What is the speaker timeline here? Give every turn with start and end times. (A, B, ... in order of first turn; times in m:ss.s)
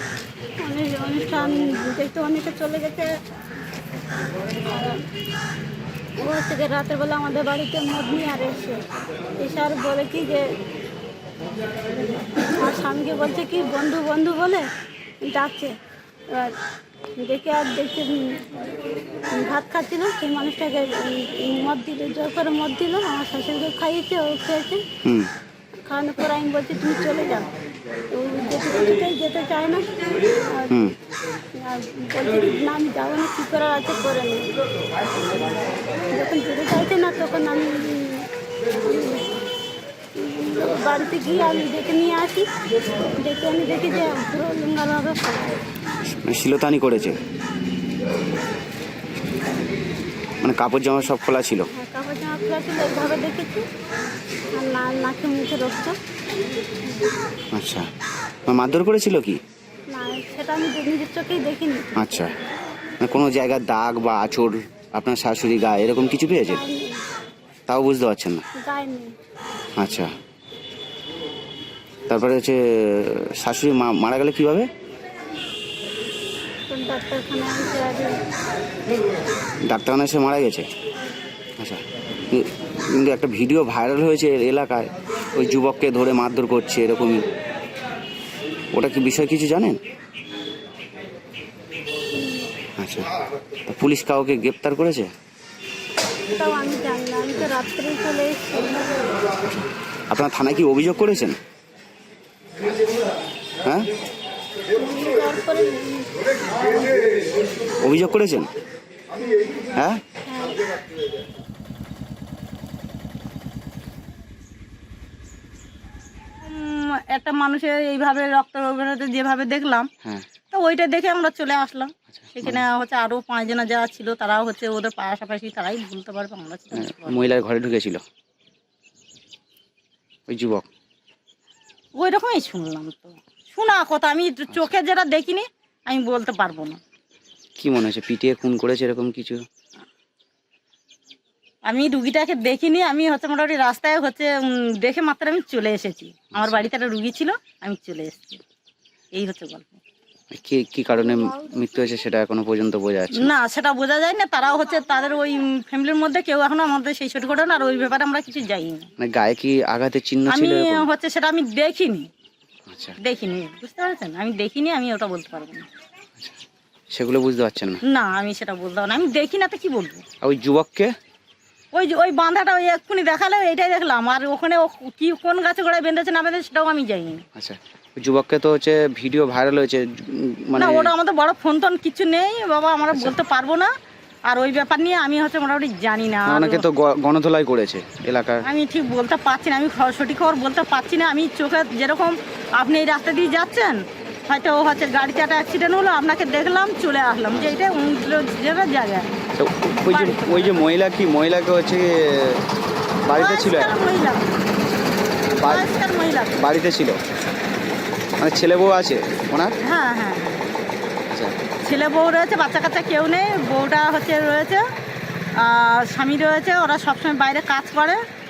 0:00.6-0:03.1 A
0:04.7-0:05.0 A
0:06.2-0:08.8 A
0:09.4-0:10.4 A
0:12.5-0:14.7 A
0:15.2-0:15.7 A
0:16.3-0:16.6 A
0:17.2-0:18.4 A
0:19.3-0:24.8 A
0:25.0-0:25.3 B
0:25.8-0:27.5 A
0:28.1-0:29.8 A
0:30.7-0:31.0 B
0:31.6-0:34.5 A
0:36.1-0:39.3 A
0:40.2-0:42.5 A
0:43.2-0:45.6 A
0:46.0-0:47.2 B
0:50.4-0:51.7 B
0:51.7-0:53.6 A
0:54.5-0:56.0 A
0:57.5-0:57.9 B
0:58.5-0:59.4 B
0:59.9-1:02.1 A
1:02.0-1:02.3 B
1:03.0-1:06.6 B
1:06.5-1:07.0 A
1:07.7-1:08.4 B
1:08.6-1:09.1 A
1:09.8-1:10.1 B
1:12.1-1:14.7 B
1:16.7-1:18.1 A
1:19.7-1:20.6 B
1:21.6-1:27.2 B
1:28.7-1:29.8 B
1:32.2-1:32.5 A
1:32.8-1:33.1 B
1:33.7-1:35.1 B
1:36.3-1:38.8 A
1:40.1-1:41.4 B
1:43.6-1:43.9 B
1:44.7-1:46.9 A
1:47.8-1:48.5 B
1:49.7-1:50.0 B
1:50.3-1:50.6 A
1:56.4-1:59.9 C
2:00.5-2:07.3 C
2:02.2-2:02.6 B
2:06.7-2:08.0 B
2:10.3-2:10.7 B
2:12.0-2:16.8 C
2:17.6-2:19.4 B
2:21.7-2:28.4 C
2:26.3-2:26.6 B
2:29.1-2:29.8 C
2:30.3-2:33.3 B
2:31.0-2:31.5 A
2:33.2-2:38.9 C
2:39.0-2:40.9 B
2:40.3-2:42.1 C
2:42.7-2:43.0 B
2:43.0-2:45.7 C
2:46.9-2:47.8 B
2:47.9-2:50.0 C
2:50.2-2:50.9 B
2:51.7-2:57.2 C
2:57.4-3:00.9 B
3:00.6-3:03.7 C
3:04.3-3:06.7 C
3:06.3-3:08.5 B
3:08.4-3:19.1 C
3:19.4-3:22.4 B
3:19.9-3:20.6 C
3:23.0-3:23.7 B
3:23.1-3:24.2 C
3:25.4-3:25.7 B
3:25.4-3:26.3 C
3:26.4-3:27.0 B
3:28.2-3:29.6 B
3:29.6-3:30.5 C
3:31.1-3:31.4 B
3:31.6-3:34.6 C
3:35.4-3:38.0 C